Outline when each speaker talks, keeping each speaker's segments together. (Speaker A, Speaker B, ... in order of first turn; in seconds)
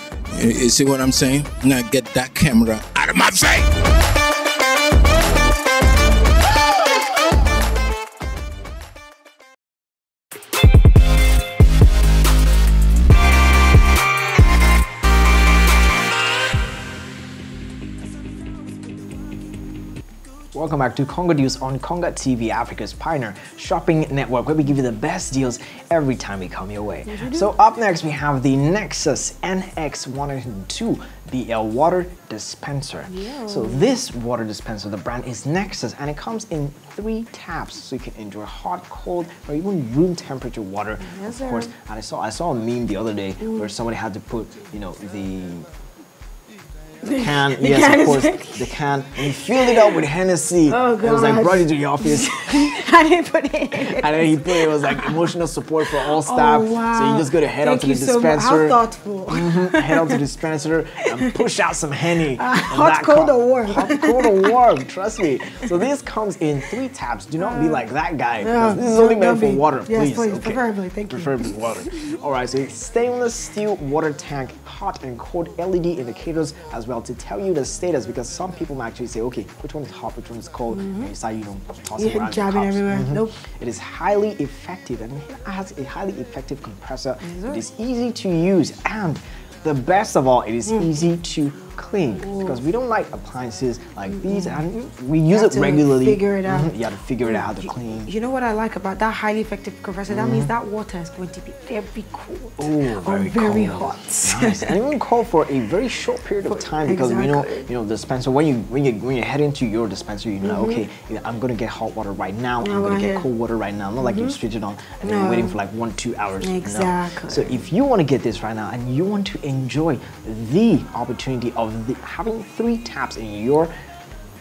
Speaker A: 0.3-3.8
Speaker B: 20.5-45.6, 47.2-52.7, 53.8-58.8, 59.3-98.1, 100.1-100.5, 102.6-123.7
Speaker C: 27.1-27.5, 33.1-33.9, 41.0-41.7, 43.4-43.7, 47.0-50.0, 50.7-55.3, 55.9-60.2, 62.3-64.6, 67.4-67.8, 68.4-72.0, 80.7-81.1, 82.0-83.4, 87.2-87.6, 92.2-92.6, 94.1-94.6, 95.3-104.7, 106.4-107.7, 110.4-110.8, 112.6-113.3, 114.0-114.4, 115.0-115.6, 116.4-117.6